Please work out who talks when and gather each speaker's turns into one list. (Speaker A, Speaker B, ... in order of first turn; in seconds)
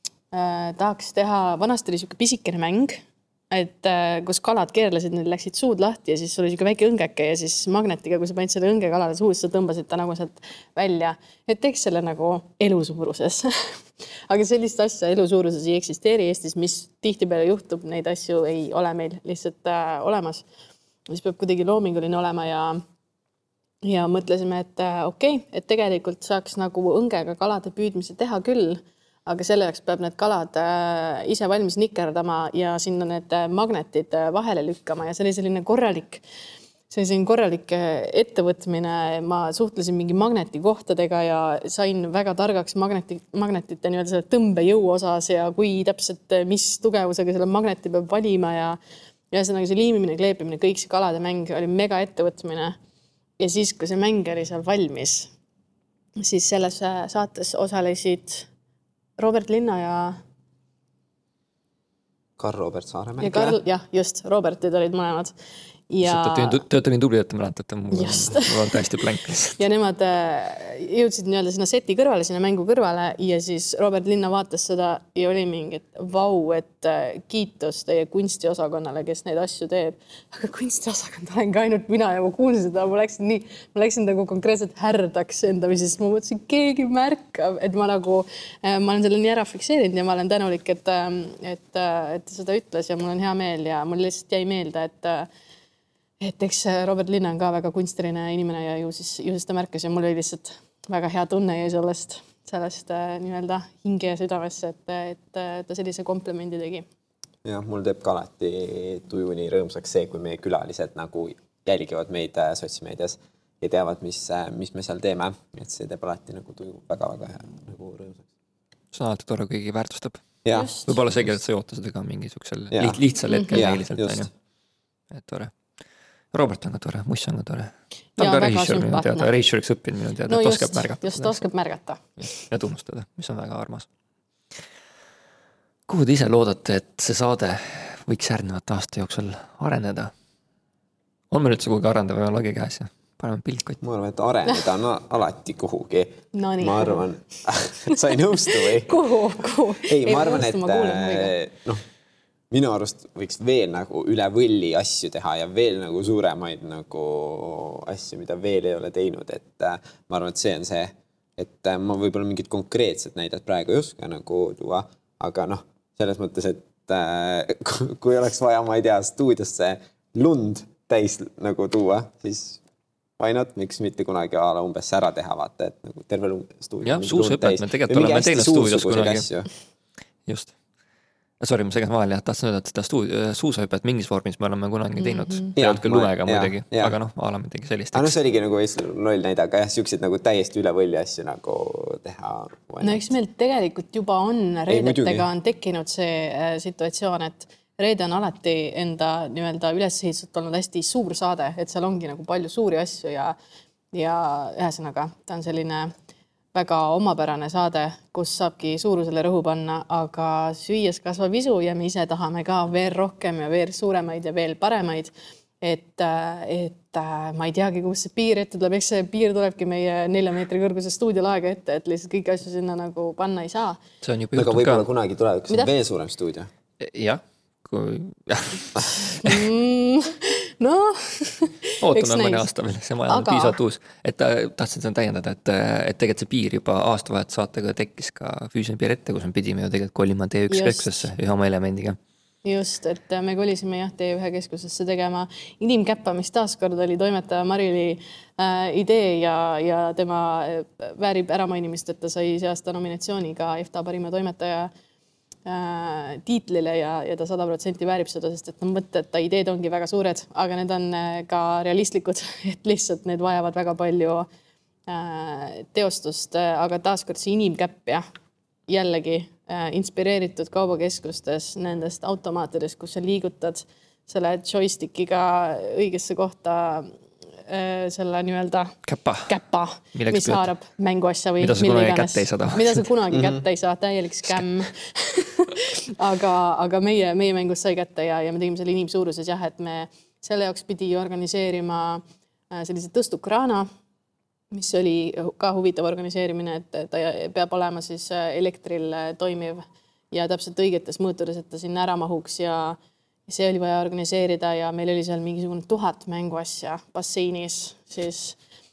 Speaker A: 0.3-13.8, 14.3-20.4, 21.1-22.8, 23.8-36.2, 36.9-48.8, 49.3-52.8, 53.4-55.3, 56.2-58.5, 59.2-60.2, 63.2-65.3, 65.9-66.6, 67.9-68.9, 69.6-95.3, 96.2-106.9, 120.5-120.9, 123.3-123.6, 128.2-129.3, 130.3-132.4, 146.3-147.1, 147.9-151.3, 185.0-185.5, 192.8-203.4, 203.9-205.9, 206.5-223.8, 229.2-232.5, 233.1-233.6, 240.5-241.0, 242.4-254.7, 255.5-264.3, 264.9-268.1, 268.7-278.8, 279.3-293.7, 294.5-308.4
Speaker B: 62.4-63.6, 107.4-118.3, 120.5-120.9, 122.7-123.0, 123.5-124.3, 143.8-149.0, 149.8-151.8, 152.5-172.6, 173.2-179.5, 185.6-186.9, 187.9-193.1, 194.7-195.3, 224.3-226.5, 283.1-283.4
Speaker C: 66.0-69.6, 118.9-120.2, 120.8-124.3, 125.1-125.5, 126.3-131.4, 132.2-133.9, 135.9-140.1, 141.3-143.8, 176.8-179.3, 180.3-180.5, 181.4-188.2, 224.0-224.9, 226.8-229.5, 231.8-242.0, 278.9-279.3, 279.9-280.5, 281.4-282.9